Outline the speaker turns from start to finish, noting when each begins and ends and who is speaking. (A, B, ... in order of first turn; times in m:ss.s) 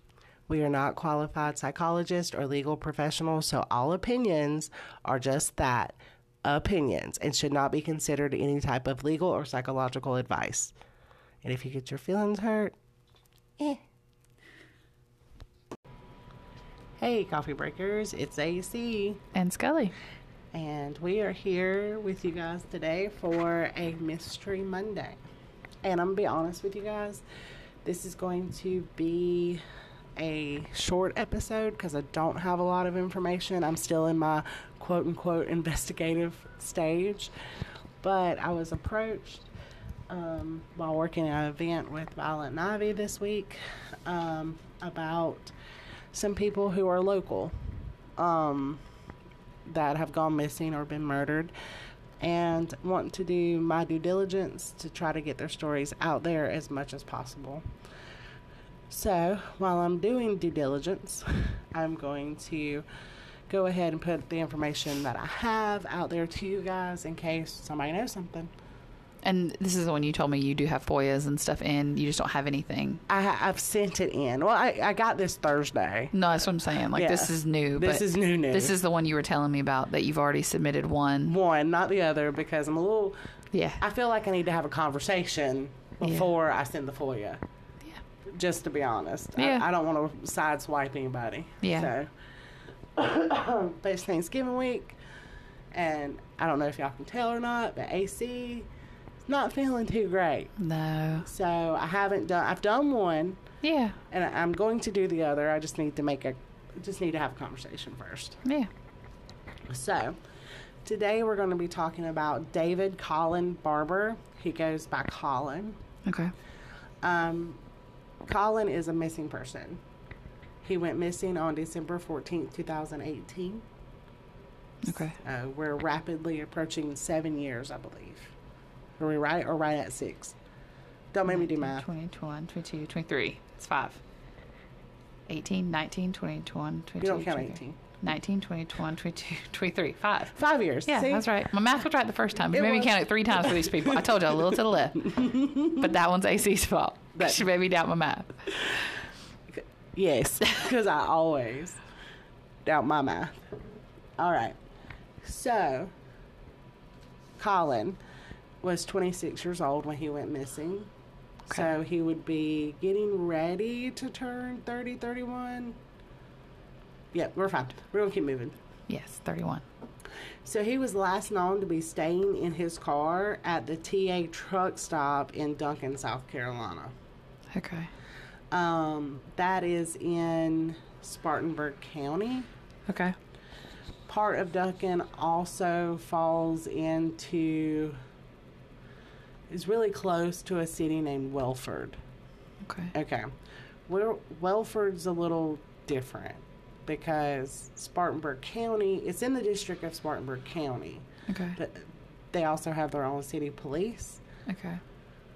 0:00.5-0:10.8 A
0:11.4-0:12.8 A
0:17.0-0:19.2 A
0:19.3-0:20.0 B
0:20.5-0:25.2 A
0:25.8-0:27.2 A
0:27.8-0:29.6 A
0:30.2-0:37.3 A
0:38.0-0:39.5 A
0:40.1-0:45.5 A
0:46.1-0:47.5 A
0:48.2-0:48.8 A
0:49.6-0:51.5 A
0:52.2-0:57.6 A
0:58.9-1:02.8 A
1:03.5-1:08.5 A
1:09.2-1:13.0 B
1:13.1-1:16.1 A
1:16.1-1:21.4 B
1:16.9-1:18.8 A
1:21.3-1:23.2 A
1:23.5-1:23.8 B
1:23.8-1:27.4 A
1:28.3-1:32.1 A
1:29.4-1:29.6 B
1:31.6-1:31.9 B
1:33.0-1:35.0 A
1:35.7-1:38.7 A
1:39.3-1:40.5 A
1:40.6-1:41.3 B
1:41.2-1:43.4 A
1:43.6-1:44.0 B
1:44.1-1:48.4 A
1:48.4-1:48.7 B
1:49.7-1:50.2 A
1:50.8-1:55.8 A
1:56.1-1:56.3 B
1:57.0-1:57.6 A
1:58.2-1:59.8 A
2:00.6-2:03.6 A
2:04.8-2:05.2 B
2:05.2-2:08.3 A
2:09.0-2:10.4 A
2:11.1-2:11.9 A
2:11.3-2:14.0 B
2:15.3-2:28.6 B
2:17.0-2:17.8 A
2:20.4-2:21.3 A
2:22.5-2:25.9 A
2:27.2-2:27.5 A
2:29.5-2:31.8 A
2:32.6-2:33.5 A
2:34.2-2:34.6 A
2:35.2-2:35.9 A
2:37.4-2:38.0 A
2:38.6-2:40.9 A
2:41.5-2:45.8 A
2:47.1-2:48.6 A
2:48.9-2:49.6 B
2:50.4-2:56.9 A
2:57.5-2:57.9 B
2:58.5-3:02.5 A
3:02.9-3:03.2 B
3:04.1-3:08.0 A
3:09.5-3:12.0 A
3:12.6-3:12.9 B
3:12.9-3:13.3 A
3:13.9-3:24.2 A
3:21.3-3:21.6 B
3:24.5-3:24.8 B